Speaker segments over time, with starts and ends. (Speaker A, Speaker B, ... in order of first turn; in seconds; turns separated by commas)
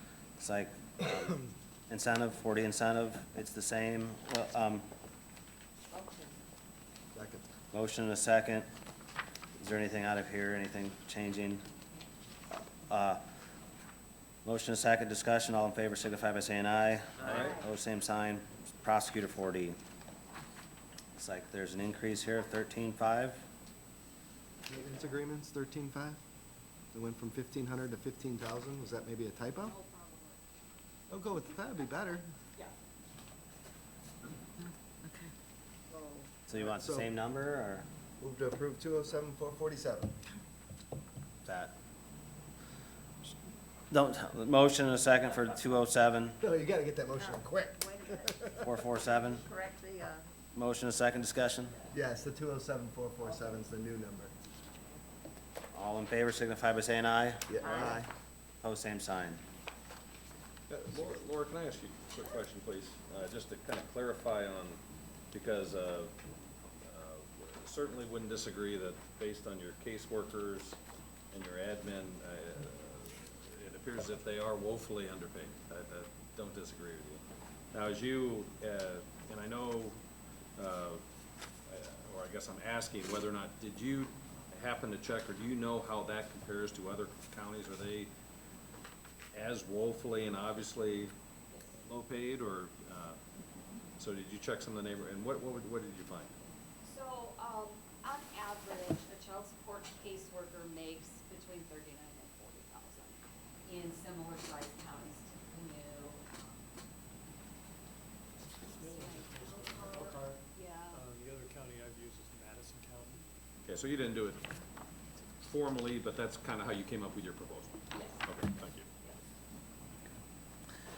Speaker A: 0.4-4.9, Speaker B: 5.9-6.4, Speaker C: 7.1-7.5, Speaker A: 7.7-8.7, Speaker A: 9.6-11.6, Speaker A: 12.9-13.2, Speaker A: 14.4-19.8, Speaker D: 17.2-17.5, Speaker A: 21.1-23.4, Speaker C: 24.7-26.2, Speaker C: 26.9-29.8, Speaker E: 29.6-30.4, Speaker C: 31.1-32.2, Speaker B: 35.9-36.3, Speaker A: 36.5-37.9, Speaker C: 36.5-37.1, Speaker C: 38.2-40.1, Speaker A: 41.4-41.7, Speaker A: 43.9-46.4, Speaker C: 46.4-48.6, Speaker B: 47.2-48.5, Speaker A: 48.6-49.5, Speaker B: 49.4-50.2, Speaker A: 50.5-51.7, Speaker C: 51.9-54.3, Speaker A: 55.7-57.6, Speaker C: 57.5-58.1, Speaker B: 57.6-58.0, Speaker A: 58.6-59.4, Speaker D: 60.7-64.8, Speaker D: 65.3-66.1, Speaker D: 66.8-70.8, Speaker D: 71.3-80.0, Speaker D: 80.6-81.0, Speaker D: 81.7-88.1, Speaker D: 89.3-91.1, Speaker D: 91.7-93.2, Speaker D: 94.0-96.4, Speaker E: 96.8-106.7, Speaker F: 108.7-113.2, Speaker E: 108.7-111.0, Speaker D: 113.7-114.5, Speaker D: 115.4-118.9, Speaker E: 117.9-118.2